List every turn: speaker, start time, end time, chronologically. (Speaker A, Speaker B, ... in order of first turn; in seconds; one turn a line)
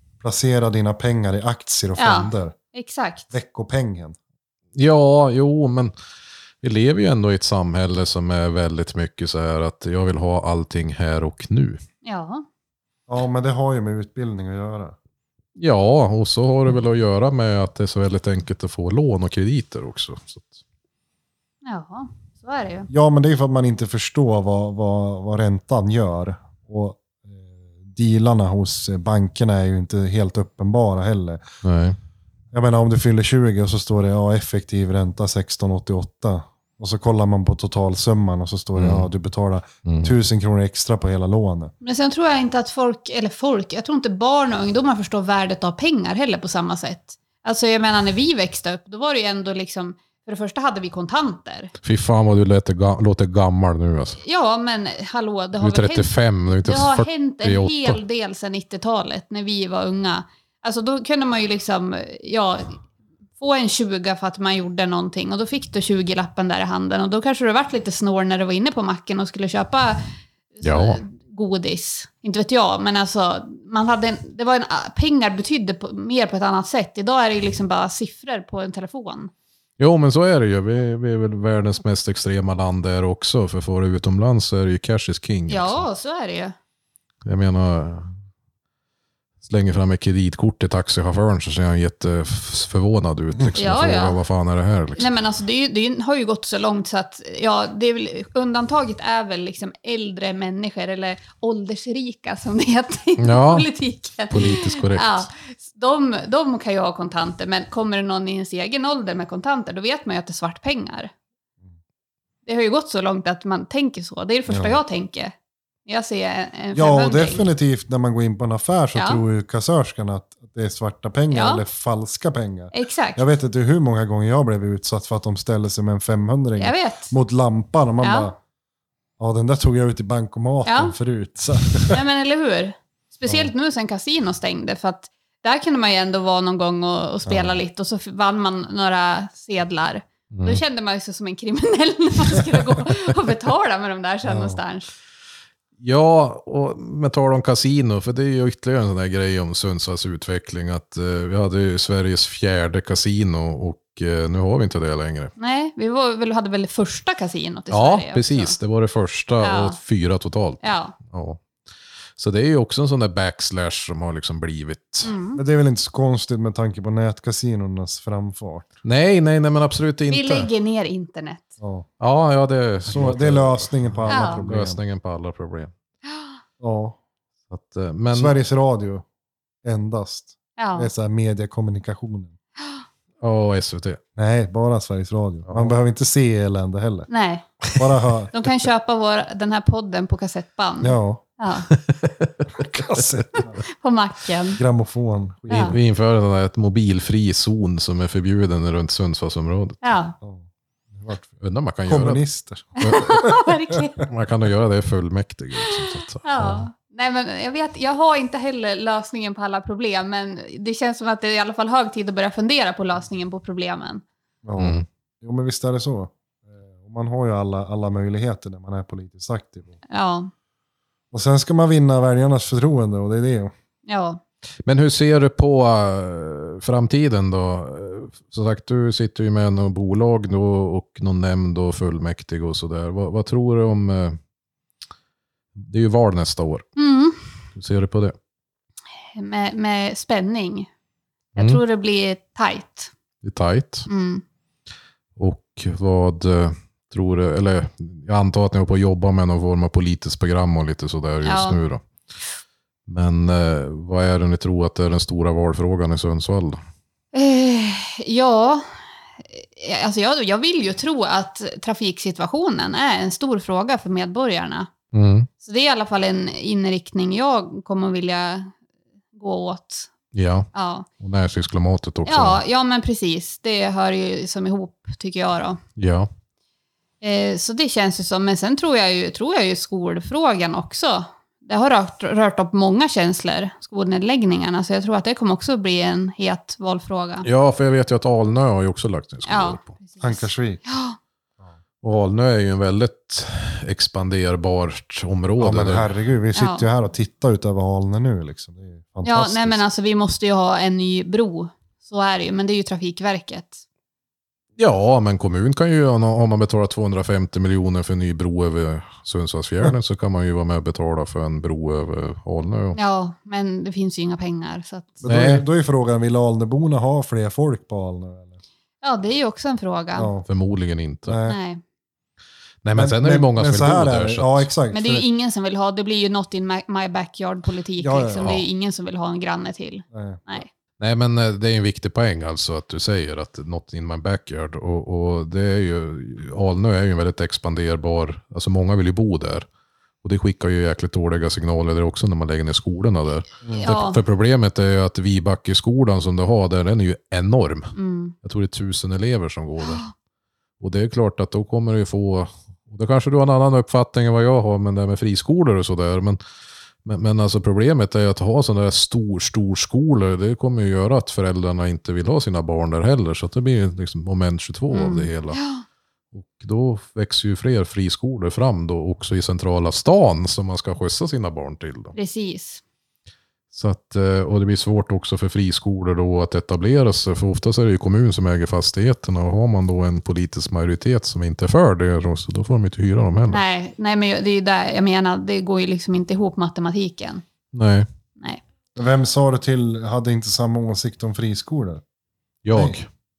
Speaker A: 0.2-2.5
Speaker B: 1.9-3.3
Speaker A: 3.3-4.2
Speaker C: 4.7-5.9
Speaker C: 6.6-11.8
Speaker B: 12.0-12.4
Speaker A: 13.1-14.9
Speaker C: 15.6-20.6
Speaker B: 21.6-22.9
Speaker A: 22.9-31.4
Speaker C: 31.6-32.0
Speaker A: 32.5-41.7
Speaker C: 38.7-39.1
Speaker C: 39.8-40.1
Speaker B: 41.8-51.7
Speaker C: 51.8-54.2
Speaker B: 54.2-56.1
Speaker C: 55.6-58.0
Speaker B: 56.6-62.8
Speaker B: 63.4-79.3
Speaker C: 70.6-71.0
Speaker C: 79.8-85.8
Speaker B: 85.5-86.5
Speaker C: 87.2-88.1
Speaker C: 89.4-95.1
Speaker B: 93.5-94.2
Speaker B: 95.0-111.1
Speaker C: 103.2-103.7
Speaker C: 104.3-105.2
Speaker B: 112.5-115.3
Speaker A: 114.5-114.8
Speaker B: 115.8-117.5
Speaker A: 116.7-128.4
Speaker B: 118.9-119.2
Speaker B: 121.3-121.6
Speaker B: 122.7-123.2
Speaker B: 126.6-127.1
Speaker B: 128.0-128.3
Speaker A: 129.2-132.0
Speaker B: 130.7-130.9
Speaker B: 131.9-144.9
Speaker A: 137.2-137.6
Speaker C: 140.3-140.6
Speaker A: 144.2-144.6
Speaker C: 145.8-155.3
Speaker B: 155.4-158.6
Speaker C: 157.7-161.4
Speaker B: 159.4-159.8
Speaker B: 160.6-160.9
Speaker C: 162.2-165.1
Speaker B: 165.0-165.4
Speaker A: 165.3-168.7
Speaker C: 168.8-170.5
Speaker B: 170.1-171.5
Speaker A: 171.6-171.9
Speaker C: 172.0-175.7
Speaker A: 172.8-174.8
Speaker B: 174.1-174.4
Speaker B: 176.1-176.3
Speaker A: 176.6-177.0
Speaker C: 177.5-178.3
Speaker A: 178.1-179.1
Speaker A: 179.6-182.3
Speaker B: 180.6-180.9
Speaker C: 183.2-184.0
Speaker A: 184.2-187.1
Speaker C: 185.5-185.7
Speaker B: 187.1-187.4
Speaker A: 187.7-188.3
Speaker B: 188.3-191.7
Speaker A: 190.8-191.2
Speaker C: 191.7-193.0
Speaker A: 192.6-193.6
Speaker B: 193.6-194.6
Speaker A: 194.5-195.8
Speaker B: 195.5-195.7
Speaker C: 195.5-199.8
Speaker B: 199.8-200.2
Speaker A: 200.2-201.3
Speaker C: 201.4-202.2
Speaker A: 201.8-203.8
Speaker B: 202.8-204.0
Speaker C: 202.8-203.1
Speaker C: 204.1-206.6
Speaker B: 205.6-214.0
Speaker A: 214.4-219.7
Speaker C: 214.6-214.8
Speaker B: 219.9-220.3
Speaker A: 221.1-223.5
Speaker B: 223.8-224.2
Speaker C: 224.6-234.2
Speaker C: 235.5-236.7
Speaker B: 236.8-237.2
Speaker C: 237.6-238.1
Speaker B: 239.1-240.7
Speaker B: 241.3-242.9
Speaker C: 241.3-241.6
Speaker C: 243.2-243.9
Speaker B: 243.9-244.2
Speaker C: 245.2-251.8
Speaker B: 251.2-251.6
Speaker C: 252.9-256.6
Speaker B: 257.1-264.7
Speaker C: 264.9-265.3
Speaker B: 265.4-268.5
Speaker B: 269.1-269.9
Speaker C: 270.1-270.5
Speaker B: 270.5-270.9
Speaker C: 271.0-272.4
Speaker B: 272.1-275.6
Speaker C: 275.8-276.1
Speaker B: 277.0-287.3
Speaker C: 287.2-289.7
Speaker B: 289.2-291.0
Speaker A: 290.0-290.6
Speaker C: 291.8-295.9
Speaker A: 295.4-299.6
Speaker B: 296.3-296.6
Speaker B: 299.0-303.6
Speaker C: 304.6-312.8
Speaker B: 312.7-315.0
Speaker A: 315.0-318.4
Speaker C: 315.0-315.4
Speaker B: 318.8-320.1
Speaker A: 319.9-320.3
Speaker C: 320.3-321.2
Speaker A: 321.1-321.4
Speaker B: 321.2-321.6
Speaker C: 322.6-324.5
Speaker A: 322.8-325.0
Speaker B: 324.7-330.5
Speaker A: 327.8-328.4
Speaker A: 329.9-330.4
Speaker C: 330.8-339.4
Speaker C: 340.0-349.8
Speaker B: 343.5-344.0
Speaker B: 347.7-348.1
Speaker B: 349.6-349.9
Speaker C: 350.6-356.2
Speaker C: 356.8-365.4
Speaker B: 364.7-365.6
Speaker C: 366.1-371.9
Speaker B: 371.9-372.6
Speaker C: 373.5-383.4
Speaker B: 383.3-387.2
Speaker C: 387.5-387.9
Speaker A: 388.8-391.8
Speaker C: 392.4-392.9
Speaker A: 392.5-392.8